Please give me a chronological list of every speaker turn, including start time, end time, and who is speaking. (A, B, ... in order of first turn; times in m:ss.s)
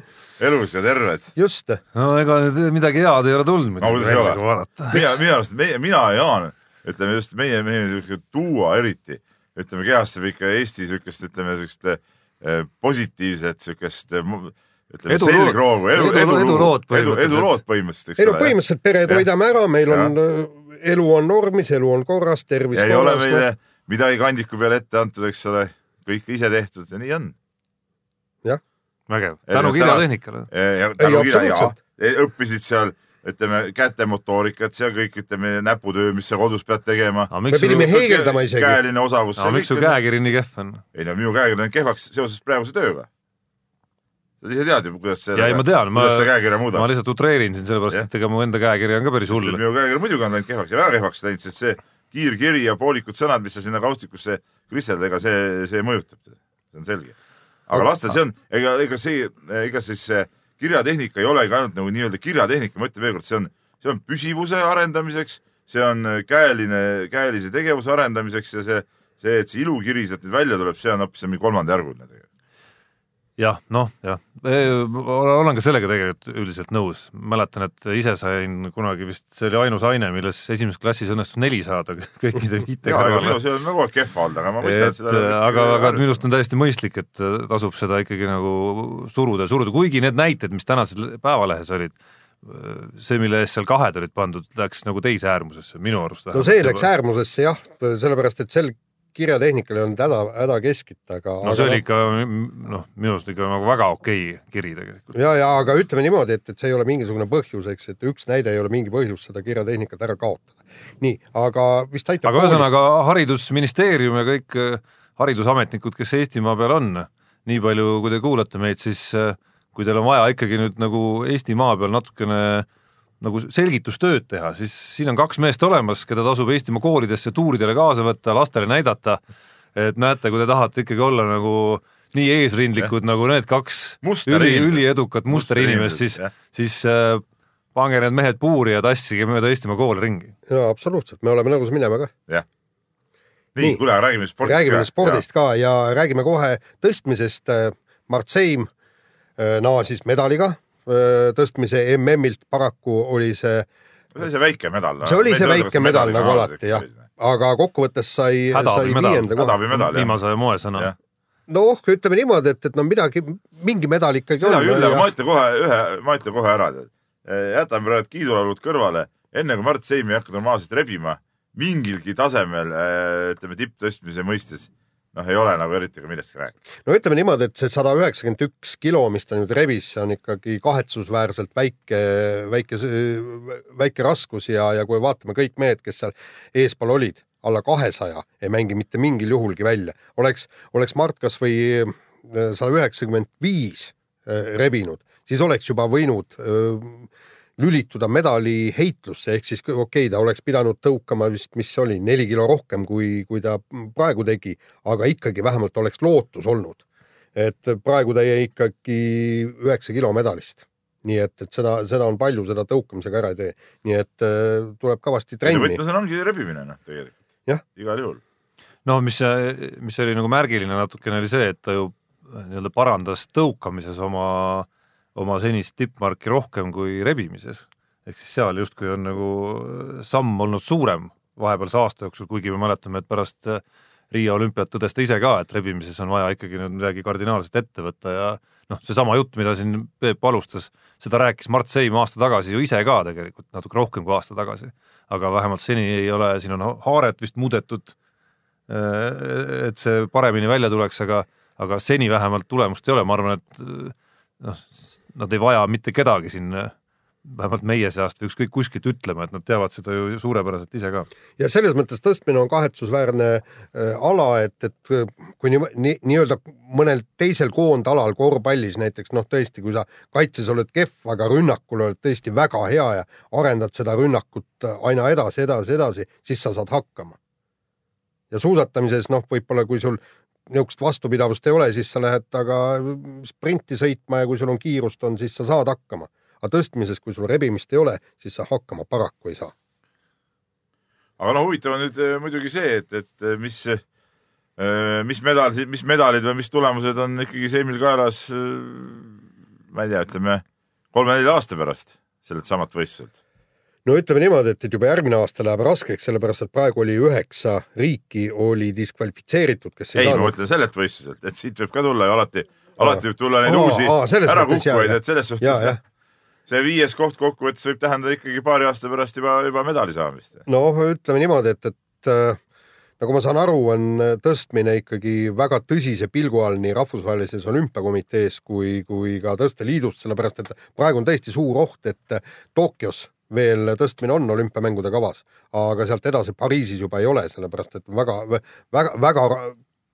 0:00.4-0:01.3 A
0:01.4-0:01.8 B
0:01.9-0:05.0 C
0:03.8-0:04.4 A
0:04.9-0:18.6 A
0:15.1-0:17.6 C
0:18.2-0:23.4 B
0:19.9-0:20.1 A
0:22.7-0:27.3 A
0:29.1-0:30.5 C
0:29.5-0:40.0 A
0:31.0-0:31.8 B
0:37.3-0:37.9 C
0:37.5-0:38.8 B
0:39.4-0:40.8 C
0:40.9-0:43.1 A
0:44.4-0:46.9 A
0:45.4-0:49.6 C
0:49.3-0:57.2 A
0:57.7-1:12.2 A
1:13.4-1:23.4 C
1:22.8-1:26.1 A
1:24.6-1:36.9 C
1:36.3-1:41.8 B
1:41.4-1:45.2 C
1:45.2-1:52.7 B
1:52.2-2:02.7 C
2:03.2-2:09.2 C
2:09.8-2:20.4 C
2:14.0-2:16.3 A
2:20.5-2:22.1 B
2:23.6-2:25.2 A
2:24.4-2:28.7 B
2:29.4-2:33.7 B
2:34.2-2:37.1 A
2:35.0-2:39.6 B
2:38.5-2:40.9 C
2:39.3-2:40.1 A
2:41.5-2:45.1 B
2:44.4-2:56.6 A
2:56.8-3:26.8 B
3:27.4-3:35.8 B
3:35.4-3:37.2 A
3:37.8-3:38.2 A
3:38.8-4:08.0 C
4:08.7-4:21.1 C
4:21.4-4:37.2 B
4:38.3-4:49.5 B
4:51.2-4:53.8 A
4:54.6-5:03.1 A
5:03.9-5:10.3 B
5:10.0-5:15.8 A
5:12.8-5:15.8 B
5:16.5-5:20.4 A
5:20.5-5:22.4 B
5:23.0-5:39.6 B